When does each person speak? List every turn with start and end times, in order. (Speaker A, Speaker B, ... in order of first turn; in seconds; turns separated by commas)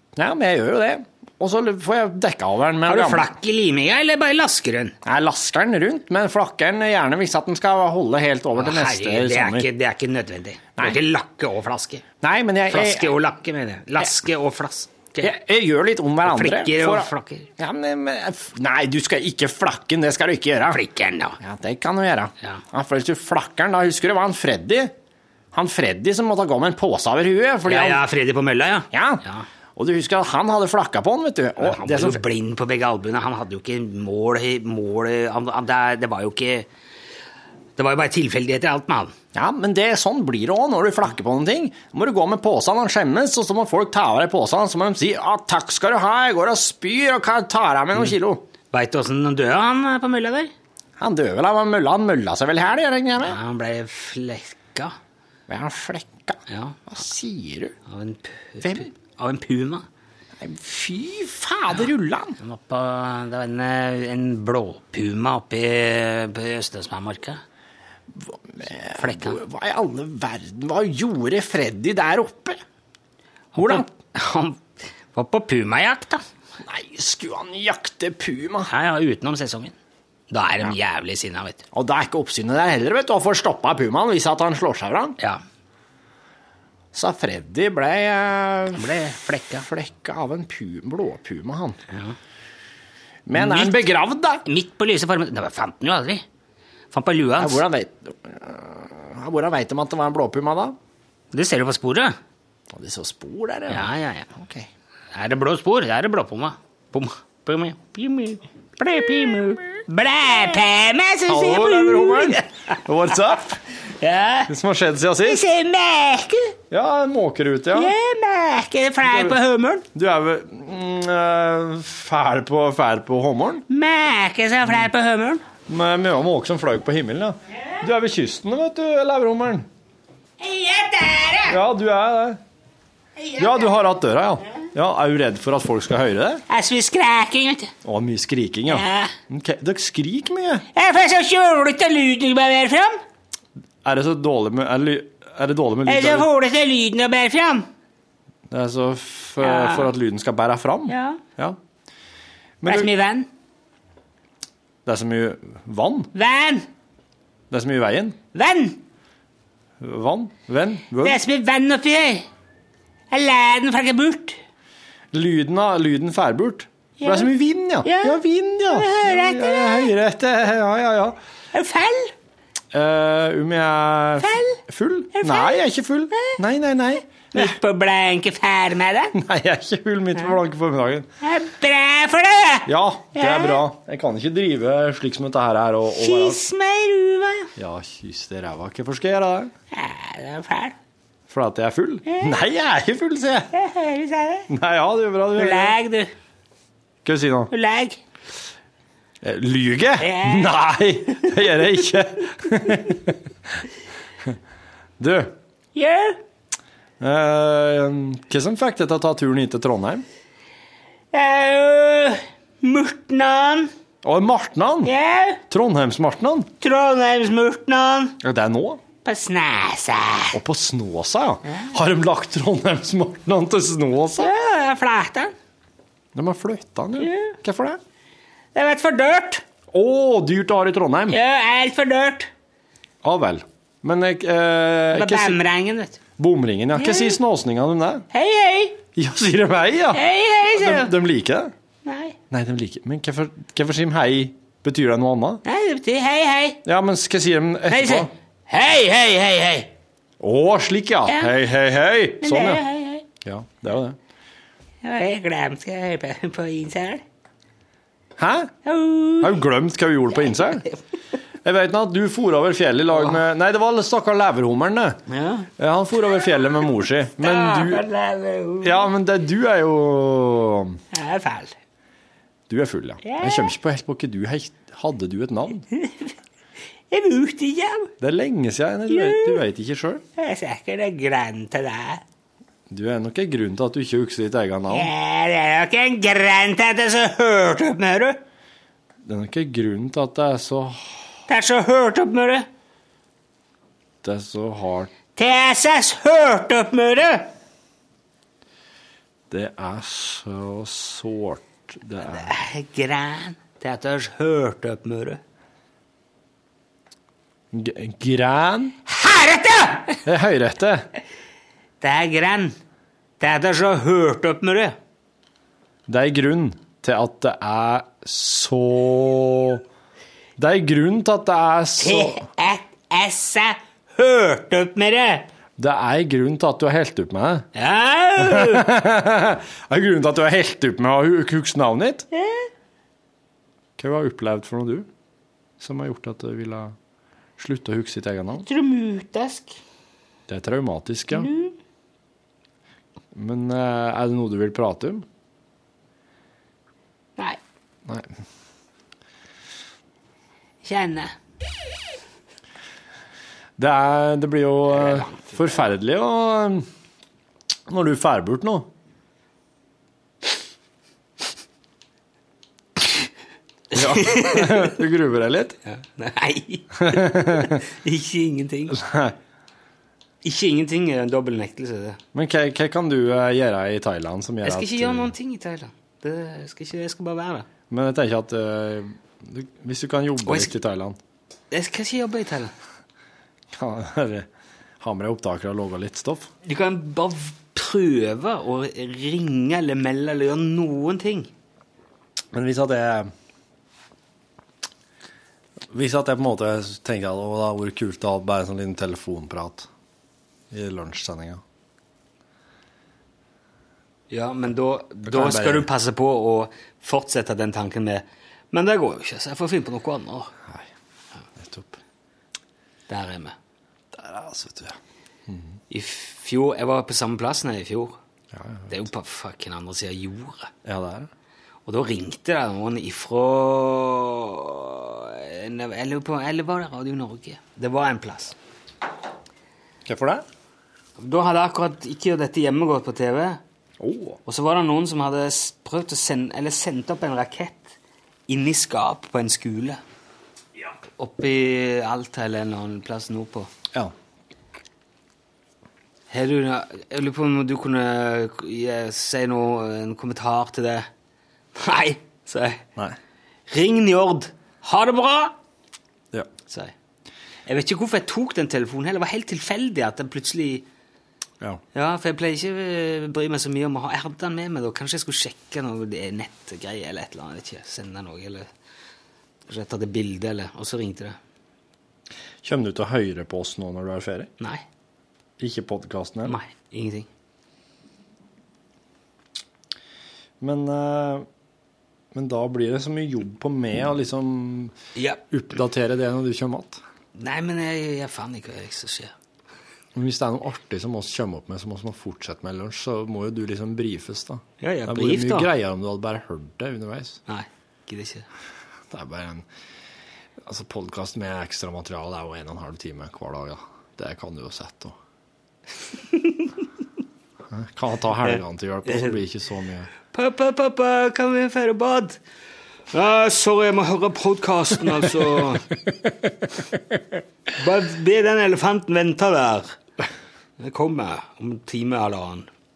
Speaker A: 0.1-3.3, Speaker B: 2.9-4.9, Speaker A: 5.0-9.7, Speaker B: 8.5-12.0, Speaker A: 12.2-13.1, Speaker B: 12.7-15.3, Speaker A: 15.2-20.8, Speaker B: 16.2-17.5, Speaker B: 20.7-21.4, Speaker A: 21.4-24.9, Speaker A: 25.5-28.0, Speaker B: 27.6-29.4, Speaker A: 28.9-29.2, Speaker A: 29.8-32.2, Speaker B: 31.6-36.7, Speaker B: 37.8-39.1, Speaker A: 39.3-48.4, Speaker B: 48.7-50.5, Speaker A: 51.0-53.4, Speaker B: 53.2-55.0, Speaker A: 55.5-57.8, Speaker B: 56.5-56.8, Speaker B: 57.9-59.9, Speaker A: 58.6-58.9, Speaker A: 60.4-62.4, Speaker B: 62.4-67.4, Speaker A: 68.1-72.6, Speaker B: 68.9-69.4, Speaker B: 73.5-76.2, Speaker A: 73.5-73.9, Speaker A: 76.6-78.7, Speaker B: 78.7-79.7, Speaker B: 80.3-81.6, Speaker A: 81.7-85.2, Speaker A: 86.9-88.9, Speaker B: 88.7-89.7, Speaker A: 89.6-91.8, Speaker A: 93.2-94.4, Speaker B: 93.3-93.8, Speaker B: 94.4-96.2, Speaker B: 96.9-97.6, Speaker A: 97.4-100.8, Speaker B: 101.3-102.2, Speaker A: 102.7-104.7, Speaker B: 103.7-104.3, Speaker B: 105.1-112.8, Speaker A: 111.2-113.6, Speaker B: 114.0-114.5, Speaker A: 114.5-115.4, Speaker B: 115.2-116.5, Speaker A: 116.7-117.9, Speaker B: 117.7-119.8, Speaker A: 119.0-119.4, Speaker A: 119.9-123.6, Speaker B: 123.7-125.4, Speaker A: 125.7-129.7, Speaker B: 130.4-131.6, Speaker A: 131.5-132.4, Speaker B: 133.2-133.8, Speaker A: 133.4-136.4, Speaker B: 136.5-137.7, Speaker A: 137.8-140.6, Speaker B: 138.7-139.1, Speaker B: 140.7-143.0, Speaker A: 143.8-146.3, Speaker B: 145.8-147.7, Speaker A: 148.5-151.6, Speaker B: 149.4-149.9, Speaker B: 150.9-151.2, Speaker A: 152.6-152.9, Speaker B: 152.7-153.3, Speaker A: 154.8-156.1, Speaker B: 156.1-156.7, Speaker A: 157.5-158.2, Speaker B: 158.3-158.8, Speaker A: 159.8-161.2, Speaker B: 161.0-162.3, Speaker B: 163.1-164.4, Speaker A: 165.1-171.2, Speaker B: 167.0-167.3, Speaker B: 167.8-168.2, Speaker B: 168.7-169.9, Speaker B: 171.5-172.1, Speaker A: 172.7-177.6, Speaker B: 174.2-174.6, Speaker B: 175.1-175.6, Speaker B: 176.1-176.4, Speaker B: 177.3-179.1, Speaker A: 179.1-181.1, Speaker B: 181.2-183.6, Speaker A: 182.7-186.4, Speaker B: 185.9-187.5, Speaker A: 187.6-189.5, Speaker B: 189.7-190.8, Speaker A: 191.3-193.5, Speaker B: 192.1-192.3, Speaker B: 193.5-194.5, Speaker A: 194.5-195.8, Speaker B: 195.3-196.1, Speaker A: 197.0-197.5, Speaker B: 197.5-198.0, Speaker A: 199.2-203.2, Speaker B: 200.0-200.5, Speaker A: 205.0-205.3, Speaker B: 205.7-206.2, Speaker A: 207.0-210.0, Speaker B: 211.1-213.7, Speaker A: 214.0-214.9, Speaker B: 214.8-215.4, Speaker A: 215.5-216.5, Speaker B: 216.6-218.2, Speaker A: 218.2-218.8, Speaker B: 219.0-220.4, Speaker A: 220.3-224.3, Speaker B: 224.2-225.3, Speaker A: 226.1-227.8, Speaker B: 227.0-227.3, Speaker B: 228.5-229.4, Speaker A: 229.7-231.2, Speaker B: 231.1-232.3, Speaker A: 233.0-235.4, Speaker B: 234.9-236.0, Speaker A: 236.2-238.1, Speaker B: 236.7-237.2, Speaker B: 238.1-238.8, Speaker A: 238.9-241.5, Speaker B: 239.9-240.9, Speaker B: 241.8-242.2, Speaker A: 242.3-245.4, Speaker B: 245.4-246.6, Speaker A: 246.6-248.1, Speaker B: 247.7-249.7, Speaker A: 250.2-252.6, Speaker B: 251.1-251.3, Speaker B: 252.2-253.0, Speaker A: 253.2-254.0, Speaker B: 254.8-257.0, Speaker A: 258.2-258.5, Speaker B: 258.6-259.4, Speaker A: 259.2-260.6, Speaker A: 261.4-265.0, Speaker B: 265.1-265.5, Speaker A: 265.6-267.8, Speaker B: 267.2-268.9, Speaker A: 268.6-270.8, Speaker B: 270.9-271.5, Speaker A: 272.5-275.6, Speaker B: 273.0-273.5, Speaker B: 275.7-276.1, Speaker B: 276.9-277.9, Speaker A: 278.0-280.0, Speaker B: 278.9-279.4, Speaker B: 280.2-282.0, Speaker A: 282.7-284.9, Speaker B: 284.7-288.2, Speaker A: 289.0-291.2, Speaker B: 291.3-292.5, Speaker A: 294.0-294.9, Speaker B: 295.1-297.3, Speaker A: 299.3-302.3, Speaker B: 302.0-305.2, Speaker A: 307.5-308.8, Speaker B: 308.9-310.0, Speaker A: 310.0-310.9, Speaker B: 311.8-312.6, Speaker B: 313.2-314.8, Speaker A: 315.9-319.6, Speaker A: 320.4-322.2, Speaker B: 321.8-325.3, Speaker A: 325.6-327.5, Speaker B: 327.5-328.7, Speaker A: 328.2-332.1, Speaker B: 332.1-332.5, Speaker A: 333.8-334.9, Speaker A: 335.6-336.8, Speaker A: 337.4-338.5, Speaker B: 338.4-339.6, Speaker A: 340.3-341.3, Speaker B: 341.1-341.5, Speaker A: 343.1-345.0, Speaker A: 347.8-348.1, Speaker B: 350.6-351.1, Speaker A: 353.6-356.7, Speaker B: 354.7-355.4, Speaker A: 357.7-358.7, Speaker A: 363.7-365.6, Speaker B: 363.7-364.7, Speaker B: 365.6-368.8, Speaker A: 366.8-367.6, Speaker A: 368.7-369.2, Speaker B: 370.2-372.0, Speaker A: 372.1-375.1, Speaker B: 374.4-377.5, Speaker A: 377.7-381.0, Speaker B: 380.2-380.5, Speaker B: 381.5-382.5, Speaker A: 383.5-384.3, Speaker A: 384.8-386.3, Speaker B: 386.4-391.3, Speaker A: 392.3-393.1, Speaker A: 395.7-399.7, Speaker A: 400.5-401.4, Speaker B: 404.1-410.3, Speaker A: 405.0-405.7, Speaker A: 411.4-411.8, Speaker B: 412.9-413.4, Speaker A: 413.9-414.8, Speaker A: 415.3-415.6, Speaker B: 415.7-418.0, Speaker A: 418.3-418.7, Speaker B: 418.7-420.5, Speaker A: 420.6-421.1, Speaker B: 421.6-428.3, Speaker A: 429.8-430.2, Speaker B: 431.0-433.4, Speaker A: 433.8-434.2, Speaker B: 434.2-437.7, Speaker B: 438.3-439.8, Speaker B: 441.0-443.5, Speaker B: 446.1-450.9, Speaker B: 451.5-452.6, Speaker B: 453.5-455.4, Speaker B: 457.4-460.6, Speaker B: 461.7-468.5, Speaker B: 469.5-471.2, Speaker A: 472.4-474.3, Speaker A: 475.4-476.4, Speaker B: 476.2-477.1, Speaker A: 480.4-481.2, Speaker A: 482.1-484.7, Speaker B: 484.9-485.2, Speaker A: 485.3-486.8, Speaker B: 487.1-489.1, Speaker A: 489.9-497.2, Speaker B: 494.6-495.5, Speaker B: 497.3-498.2, Speaker A: 498.9-499.5, Speaker A: 500.4-505.0, Speaker A: 507.5-509.9, Speaker B: 508.9-509.2, Speaker B: 510.1-512.2, Speaker B: 512.9-515.7, Speaker B: 517.5-519.8, Speaker B: 520.6-522.5